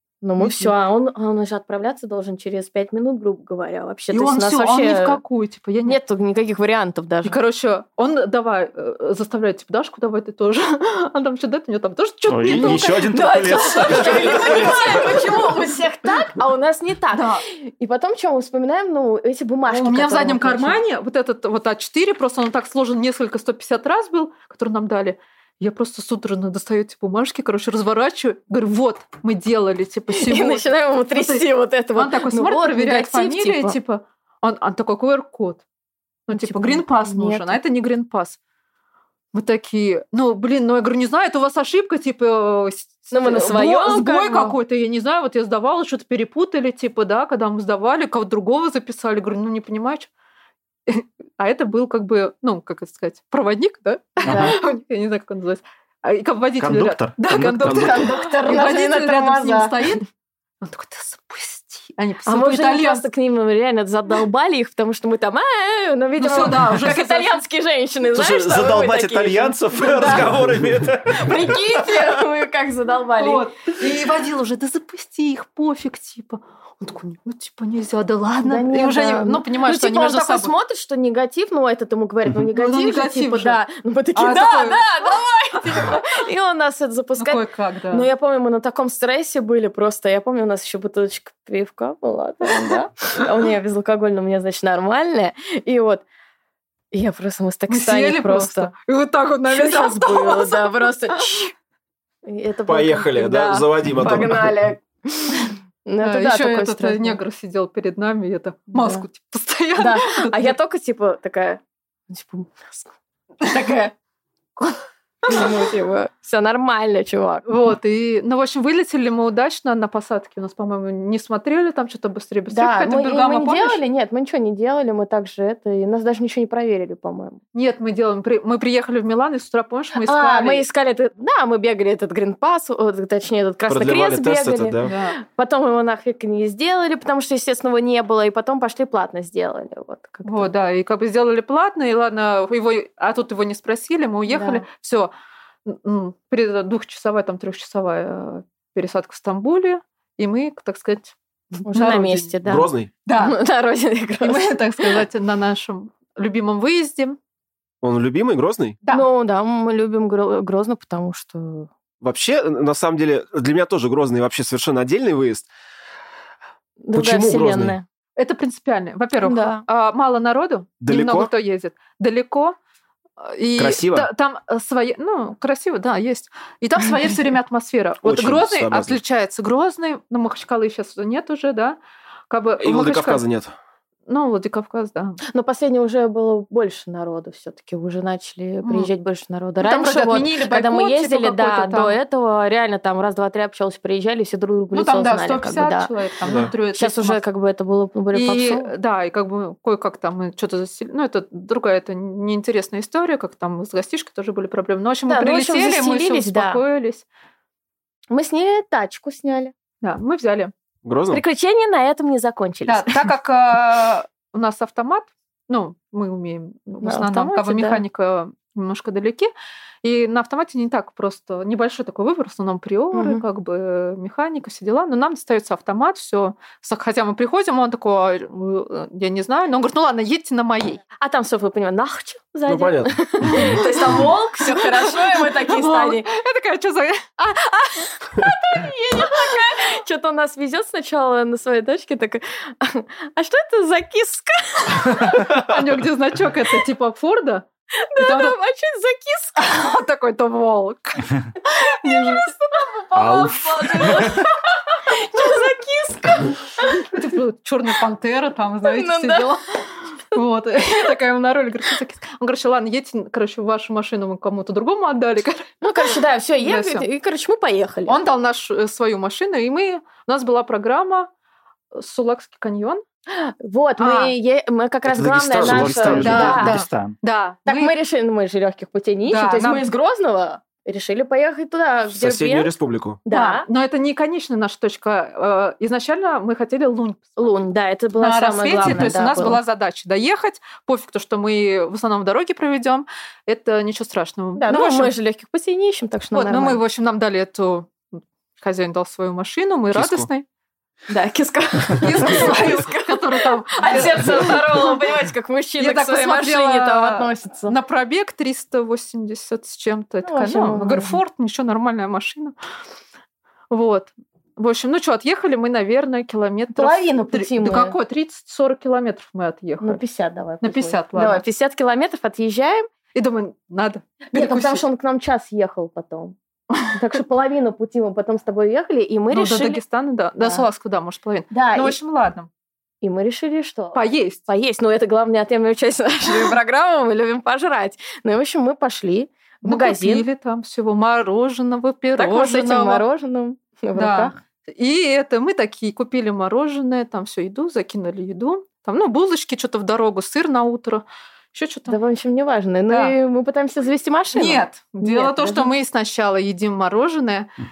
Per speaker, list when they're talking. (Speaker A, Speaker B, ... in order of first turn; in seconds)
Speaker A: 0.2-5.2, 5.8-7.4, 12.5-20.8, 30.1-33.8, 36.3-37.6, 43.1-44.5, 54.3-54.6, 57.7-59.9, 62.2-70.3, 71.1-73.5, 78.4-96.0, 96.9-98.7, 99.5-101.5, 102.2-107.2, 108.7-109.0, 109.8-113.9, 115.2-117.5, 122.5-127.4, 130.0-140.5, 144.3-144.6, 151.6-155.0, 158.9-161.7, 166.8-167.8, 169.2-169.6, 185.3-195.9, 196.7-198.7, 205.1-206.6, 208.1-209.5, 211.1-213.0, 216.8-217.8, 222.9-223.2, 231.0-236.1, 237.3-245.5, 247.9-249.4, 251.8-256.9, 258.6-259.3, 265.6-268.0, 273.1-276.6, 277.4-282.5, 283.0-283.5, 287.2-289.4, 294.4-296.6, 300.9-307.5, 310.0-311.0, 316.5-317.8, 319.6-322.7, 324.1-326.2, 326.7-329.6, 330.2-330.4, 331.3-331.8, 332.8-340.1, 342.0-344.1, 351.7-355.5
Speaker B: 0.4-0.7, 4.1-6.0, 7.2-14.7, 17.1-17.4, 19.7-35.6, 36.3-38.4, 39.3-50.1, 50.9-60.1, 60.6-63.0, 66.2-67.4, 73.2-80.5, 82.5-83.6, 84.1-85.2, 87.2-88.1, 97.7-101.5, 106.0-110.5, 117.5-123.8, 127.5-130.7, 134.8-135.2, 140.2-145.1, 145.7-151.1, 151.7-152.3, 153.0-153.4, 154.2-157.2, 168.2-172.6, 173.2-181.8, 182.3-183.2, 184.1-185.2, 188.6-188.9, 189.6-191.9, 194.7-197.2, 198.1-207.0, 209.8-210.5, 212.7-219.3, 219.8-230.8, 233.3-237.3, 245.0-247.4, 248.0-248.3, 249.3-252.3, 256.8-265.9, 266.4-266.9, 267.9-271.1, 271.7-272.8, 273.8-274.1, 276.0-277.7, 279.1-279.7, 283.1-287.2, 288.0-294.9, 296.1-297.8, 298.4-300.2, 301.8-304.8, 305.6-312.3, 313.5-319.8, 320.4-321.2, 322.9-324.6, 329.1-332.3, 333.7-334.2, 339.4-342.8, 343.7-351.8, 352.7-352.9, 354.1-357.3
Speaker C: 12.3-14.9, 54.2-54.6, 56.6-57.8, 68.1-72.2, 252.9-254.2, 275.4-276.9
Speaker D: 14.4-14.8, 57.6-58.0, 102.7-104.5, 133.7-134.9, 152.4-152.9, 157.8-158.8, 162.0-165.5, 166.9-167.8, 170.8-171.3, 173.6-174.1, 178.0-179.0, 182.6-183.5, 196.2-196.5, 210.8-211.2, 232.5-233.4, 274.9-276.4, 281.9-283.0, 299.7-300.1